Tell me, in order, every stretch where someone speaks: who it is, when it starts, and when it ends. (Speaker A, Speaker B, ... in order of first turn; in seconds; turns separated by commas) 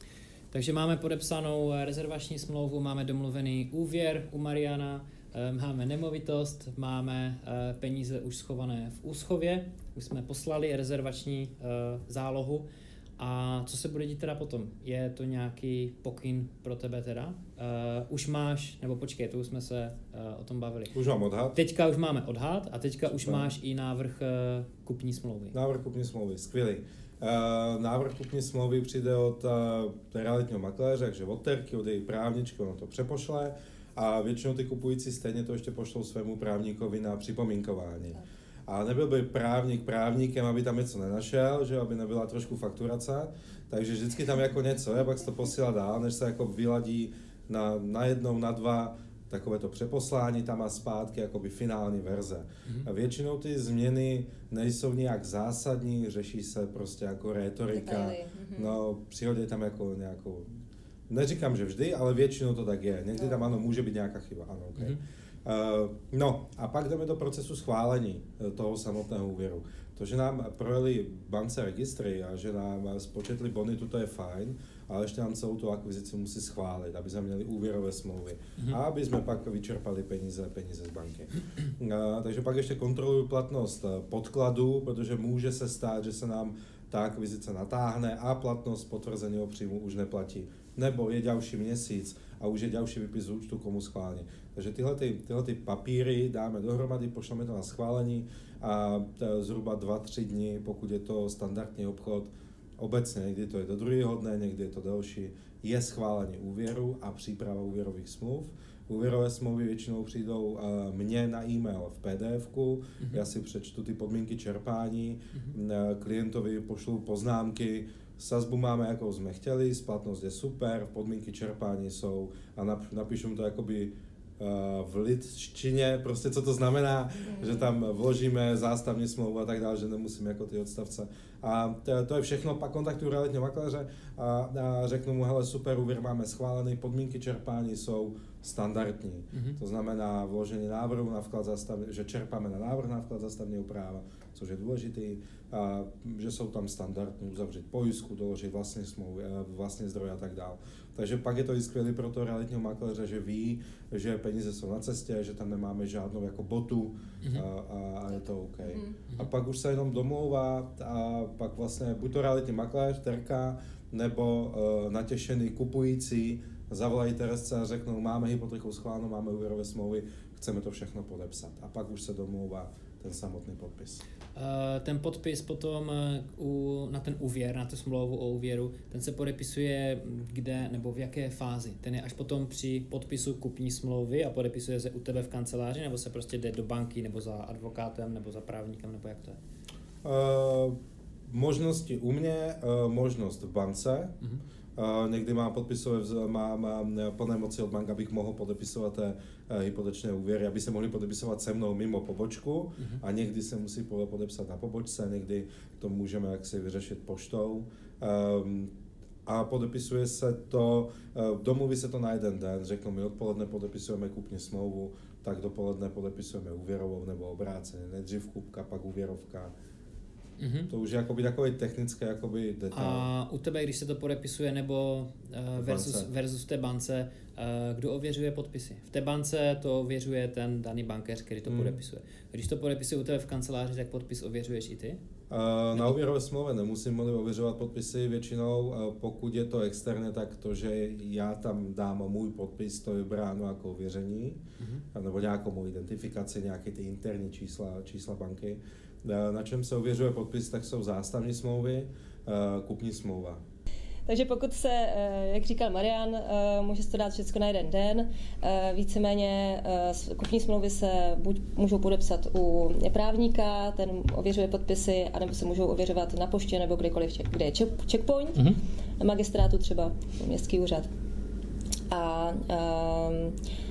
Speaker A: 0.5-12.7, Speaker A: 13.2-20.9, Speaker B: 20.9-21.6, Speaker A: 21.5-25.6, Speaker B: 23.2-23.6, Speaker B: 25.5-60.5, Speaker C: 57.7-58.8, Speaker B: 61.1-174.0, Speaker C: 63.2-63.5, Speaker A: 139.3-139.6, Speaker C: 158.7-158.9, Speaker A: 174.3-189.4, Speaker B: 190.0-190.8, Speaker B: 191.3-194.1, Speaker B: 194.8-208.7, Speaker B: 209.2-219.5, Speaker A: 220.4-220.7, Speaker B: 220.7-223.1, Speaker A: 222.7-235.0, Speaker B: 225.6-226.1, Speaker B: 231.4-231.8, Speaker B: 235.3-244.4, Speaker B: 244.9-253.4, Speaker C: 254.1-270.9, Speaker C: 271.9-273.4